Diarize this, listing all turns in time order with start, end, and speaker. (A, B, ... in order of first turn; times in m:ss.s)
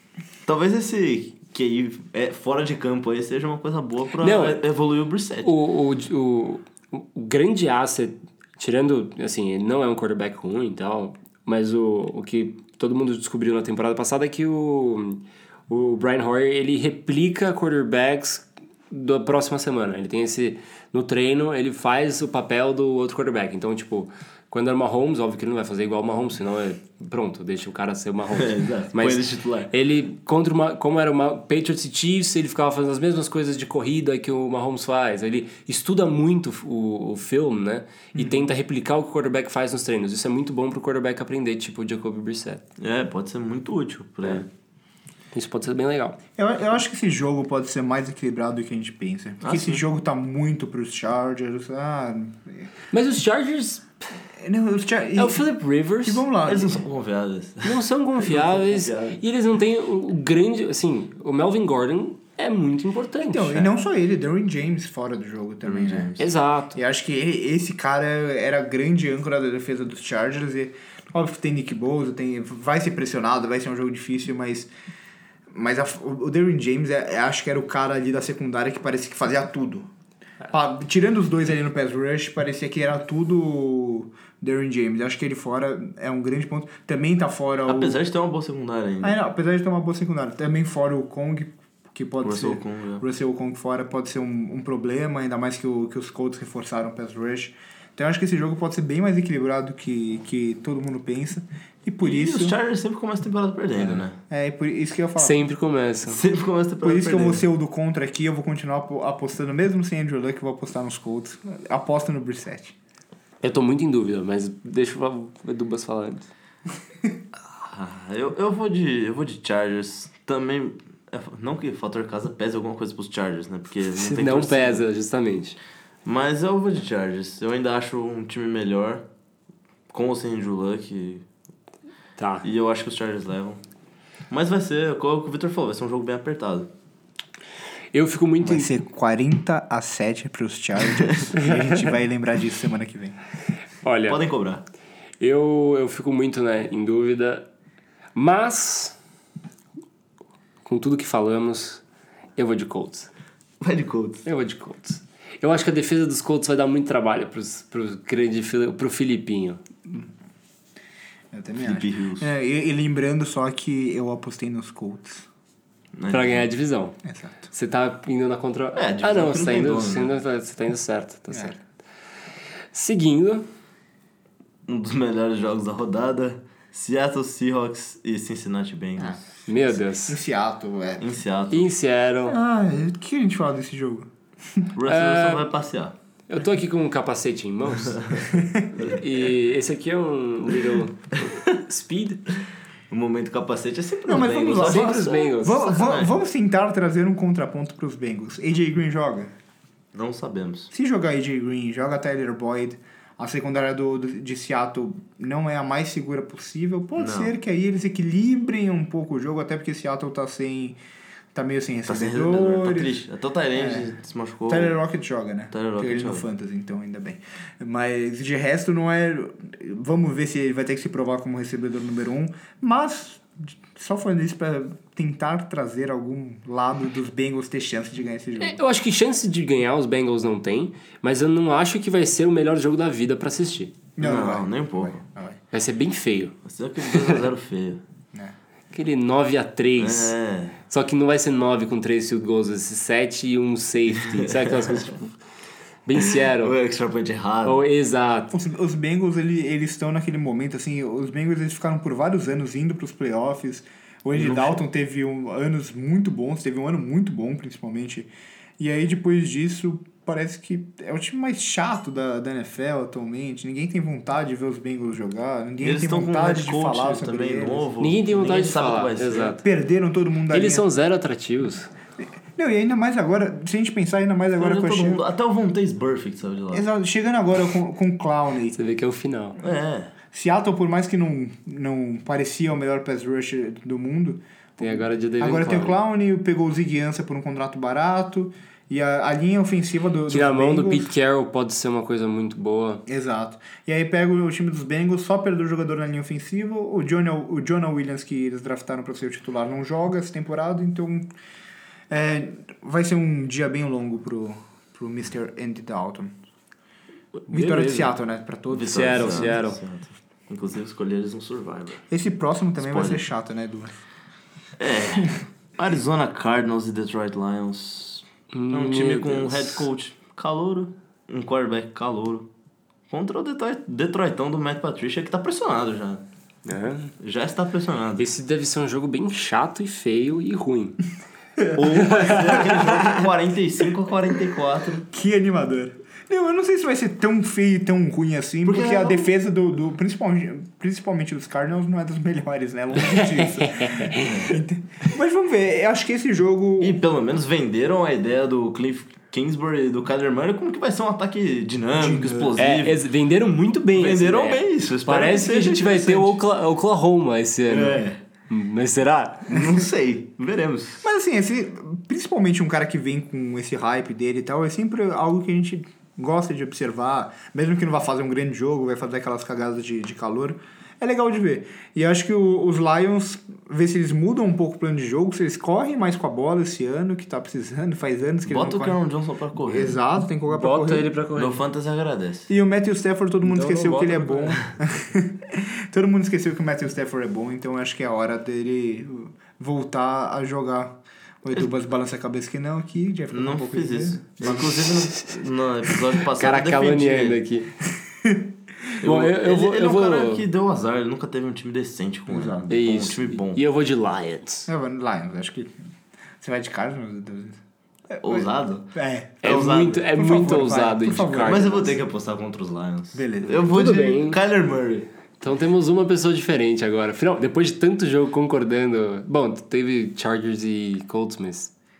0:00.4-0:05.5 A
0:04.2-0:04.6 B
0:05.4-0:42.6 B
0:28.3-0:29.7 A
0:38.1-0:38.4 C
0:42.8-0:44.4 A
0:45.3-0:46.2 B
0:46.4-0:52.7 C
0:49.4-0:49.8 A
0:52.9-0:53.9 B
0:54.4-0:55.5 C
0:55.2-0:56.2 B
0:56.0-0:56.8 C
0:56.4-0:59.2 A
0:57.6-1:03.7 B
1:03.2-1:06.1 C
1:05.6-1:06.3 A
1:06.2-1:06.8 B
1:06.7-1:14.7 C
1:15.5-1:19.9 C
1:20.5-1:28.0 C
1:27.7-1:29.2 A
1:29.0-1:42.6 C
1:32.2-1:33.0 A
1:42.0-1:44.2 A
1:43.8-1:45.4 C
1:45.2-1:46.2 B
1:46.1-1:47.4 A
1:46.8-1:52.7 C
1:53.4-1:56.3 B
1:57.6-2:04.8 A
2:04.0-2:05.6 B
2:06.0-2:09.0 A
2:09.9-2:11.2 A
2:12.2-2:12.4 B
2:12.4-2:13.6 A
2:14.3-2:16.7 A
2:17.9-2:18.7 B
2:18.4-2:23.2 C
2:21.4-2:21.8 B
2:23.8-2:24.2 B
2:24.1-2:24.6 A
2:25.2-2:27.5 B
2:28.1-2:29.0 B
2:30.6-2:31.8 B
2:32.4-2:33.1 B
2:33.6-2:34.2 A
2:34.2-2:39.6 B
2:41.3-2:45.3 C
2:41.6-2:42.3 A
2:45.9-2:46.5 A
2:46.1-2:47.0 B
2:47.0-2:47.5 C
2:47.5-2:51.6 B
2:48.7-2:50.1 A
2:51.3-2:51.6 C
2:52.7-2:53.4 B
2:54.7-2:59.2 A
2:59.0-3:01.1 C
2:59.5-3:00.2 B
3:01.0-3:01.7 A
3:01.5-3:02.4 B
3:02.2-3:04.7 C
3:04.7-3:05.9 A
3:04.8-3:05.5 B
3:06.3-3:08.0 B
3:07.8-3:08.3 A
3:08.3-3:08.8 C
3:08.9-3:12.2 B
3:12.9-3:16.1 A
3:14.0-3:19.3 C
3:14.6-3:15.7 B
3:19.9-3:20.7 A
3:20.7-3:30.8 C
3:27.0-3:27.3 A
3:31.3-3:33.0 C
3:31.9-3:34.8 A
3:33.6-3:33.9 C
3:34.5-3:48.6 C
3:35.5-3:36.2 A
3:48.4-3:53.8 B
3:54.0-3:55.4 C
3:54.0-3:55.0 A
3:55.5-3:56.3 B
3:56.4-3:57.8 A
3:56.9-3:57.2 B
3:58.7-4:00.1 B
3:59.8-4:00.6 A
4:00.7-4:05.1 B
4:04.0-4:04.9 A
4:05.8-4:06.5 B
4:06.0-4:07.6 A
4:07.4-4:08.3 B
4:08.3-4:27.7 C
4:25.6-4:29.4 A
4:27.8-4:29.4 B
4:29.4-4:30.6 C
4:30.3-4:31.7 B
4:32.3-4:35.0 C
4:34.4-4:36.6 A
4:36.5-4:38.6 C
4:38.5-4:39.4 B
4:39.4-4:39.9 A
4:40.1-4:50.9 C
4:44.6-4:45.8 B
4:50.1-4:52.8 B
4:52.9-5:01.1 C
5:01.9-5:06.2 C
5:07.3-5:07.9 B
5:07.3-5:09.4 C
5:08.5-5:11.8 A
5:08.7-5:09.6 B
5:11.9-5:13.8 C
5:12.6-5:13.0 A
5:14.6-5:22.3 A
5:18.3-5:19.6 B
5:22.9-5:26.0 A
5:26.4-5:26.9 B
5:27.0-5:28.0 A
5:28.0-5:30.8 B
5:31.5-5:34.9 A
5:31.7-5:32.4 B
5:32.1-5:33.0 C
5:34.9-5:46.8 C
5:38.4-5:39.1 A
5:42.8-5:44.3 B
5:44.0-5:44.3 A
5:46.6-5:52.8 A
5:51.8-5:52.4 C
5:52.4-5:59.4 B
5:53.7-5:56.2 A
5:57.5-5:58.0 A
5:59.3-6:00.8 A
6:00.8-6:18.8 C
6:18.3-6:19.8 A
6:19.5-6:20.9 C
6:20.3-6:21.4 B
6:21.2-6:22.3 A
6:22.3-6:34.7 C
6:23.2-6:24.4 B
6:33.1-6:37.2 A
6:36.1-6:37.5 B
6:38.0-6:38.3 C
6:38.8-6:43.4 A
6:38.8-6:40.2 B
6:42.1-6:42.5 C
6:42.5-6:44.5 B
6:44.5-6:45.5 C
6:46.2-6:51.8 C
6:48.0-6:48.7 A
6:49.2-6:49.8 A
6:49.2-6:51.6 B
6:51.2-6:54.9 A
6:52.9-6:53.6 C
6:53.4-6:54.2 B
6:55.2-7:01.5 B